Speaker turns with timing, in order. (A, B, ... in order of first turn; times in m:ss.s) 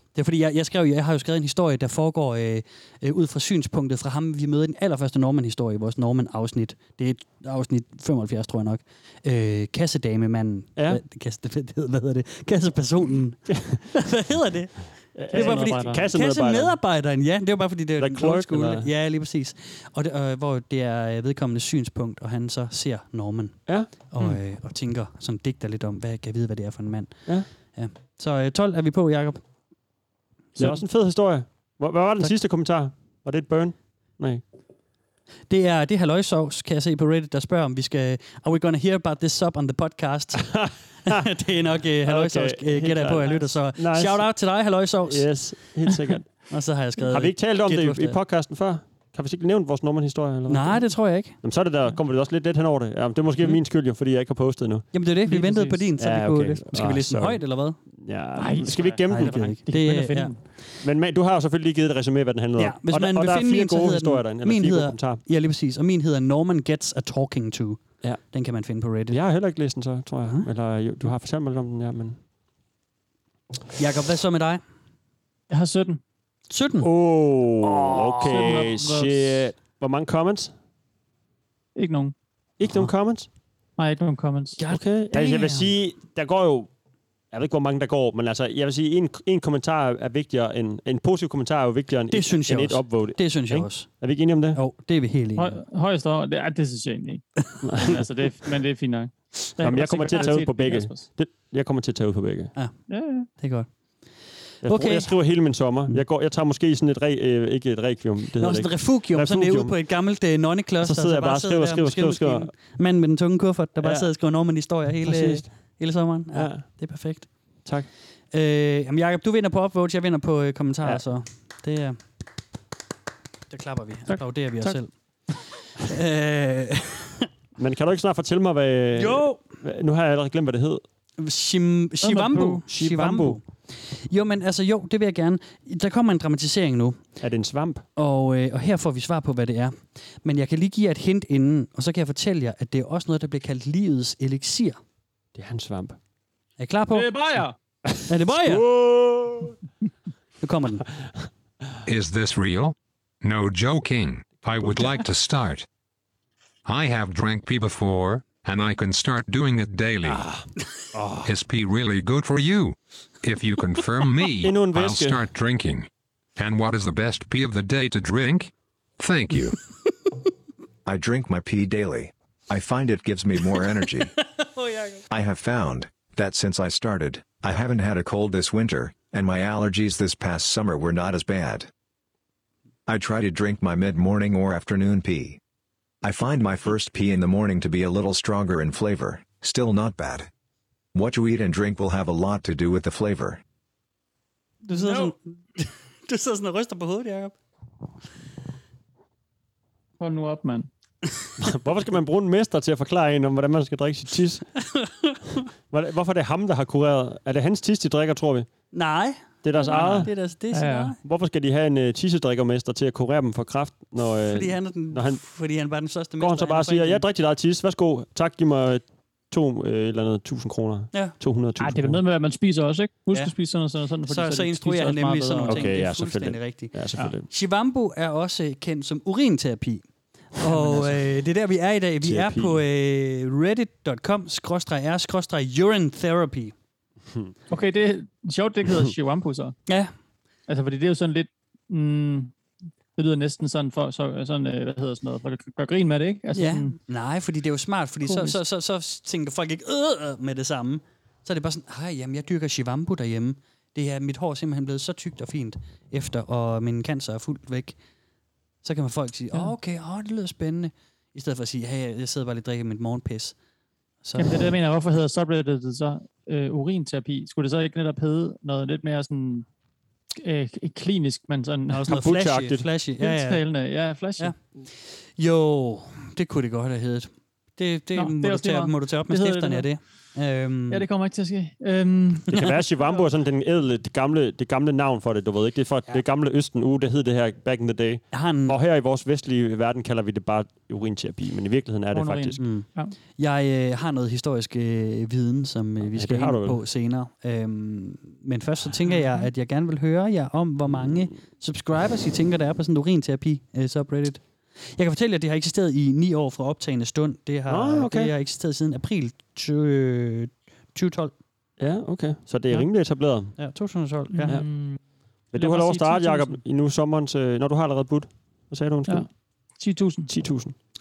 0:00.1-0:29.4 A
0:10.8-0:11.0 B
0:13.5-0:13.8 B
0:15.1-0:16.8 B
0:15.3-0:16.0 C
0:18.0-0:18.9 B
0:30.6-0:30.8 A
0:30.6-0:34.4 B
0:35.5-0:45.7 A
0:40.4-0:41.3 B
0:42.0-0:44.3 B
0:45.1-0:46.3 B
0:46.5-0:48.2 A
0:47.1-0:54.9 B
0:50.5-0:51.4 A
0:54.9-0:57.8 A
0:55.2-0:55.8 C
0:56.0-0:59.5 B
0:58.4-1:00.4 C
0:59.1-1:00.3 A
1:00.8-1:05.2 B
1:02.6-1:09.2 A
1:09.1-1:12.2 B
1:13.8-1:14.6 A
1:15.5-1:16.0 C
1:16.5-1:16.9 A
1:16.8-1:20.5 B
1:17.6-1:18.7 A
1:18.2-1:19.4 C
1:21.8-1:22.1 C
1:22.6-1:23.3 B
1:23.8-1:24.6 C
1:24.6-1:25.7 A
1:24.7-1:26.7 B
1:27.3-1:34.6 B
1:32.1-1:33.9 A
1:34.5-1:35.6 A
1:35.4-1:37.2 C
1:37.6-1:38.0 B
1:37.8-1:41.0 C
1:39.6-1:42.5 B
1:42.5-1:43.7 A
1:42.9-1:43.3 C
1:44.6-1:49.8 B
1:44.6-1:45.2 A
1:48.4-1:57.3 A
1:50.8-1:52.5 B
1:53.8-1:54.1 B
1:55.0-1:55.5 B
1:56.3-1:56.6 B
1:58.3-2:02.0 A
2:03.5-2:04.9 A
2:04.1-2:04.8 C
2:05.8-2:07.3 A
2:07.6-2:10.8 B
2:08.9-2:09.4 A
2:11.2-2:17.0 A
2:12.0-2:12.6 C
2:12.6-2:13.4 B
2:17.2-2:17.8 B
2:18.0-2:24.8 A
2:25.3-2:26.0 B
2:26.6-2:27.1 A
2:26.9-2:27.5 C
2:27.8-2:29.6 B
2:28.1-2:28.7 A
2:30.4-2:30.8 A
2:31.8-2:35.7 D
2:34.6-2:34.9 B
2:36.6-2:40.3 D
2:40.0-2:41.3 B
2:41.2-2:49.6 D
2:44.4-2:45.2 B
2:50.8-2:54.1 E
2:54.4-2:55.0 A
2:55.1-3:01.7 E
3:02.9-3:05.4 E
3:06.0-3:10.3 E
3:10.9-3:13.4 E
3:14.6-3:17.3 A
3:14.7-3:15.1 C
3:20.0-3:20.7 C
3:21.4-3:24.4 B
3:24.7-3:25.2 A
3:25.7-3:28.5 B
3:28.7-3:31.0 A
3:29.4-3:30.1 B
3:29.7-3:30.9 C
3:31.0-3:35.2 B
3:34.3-3:37.0 A
3:36.2-3:42.0 B
3:41.6-3:45.7 C
3:44.1-3:46.8 A
3:45.4-3:47.3 B
3:47.3-3:49.8 A
3:50.4-3:56.5 A
3:50.5-3:51.0 B
3:52.0-3:52.6 B
3:57.5-3:59.6 C
4:00.5-4:02.3 C
4:03.0-4:06.8 C
4:06.3-4:17.8 A
4:08.0-4:08.4 C
4:18.6-4:23.4 A
4:24.0-4:24.5 A
4:24.2-4:29.4 C
4:30.1-4:31.9 C
4:31.7-4:33.4 A
4:31.9-4:32.7 B
4:33.0-4:34.3 C
4:35.2-4:40.8 A
4:37.9-4:39.7 C
4:40.7-4:43.0 C
4:42.3-4:52.4 B
4:48.1-4:48.6 A
4:51.9-4:52.9 C
4:52.4-5:04.2 A
4:55.8-4:56.6 B
4:58.9-4:59.3 C
5:04.7-5:11.1 A
5:07.5-5:08.1 B
5:11.6-5:13.4 B
5:13.4-5:14.4 A
5:14.1-5:14.8 C
5:15.3-5:19.1 B
5:15.3-5:16.4 C
5:19.6-5:20.1 C
5:20.1-5:20.5 B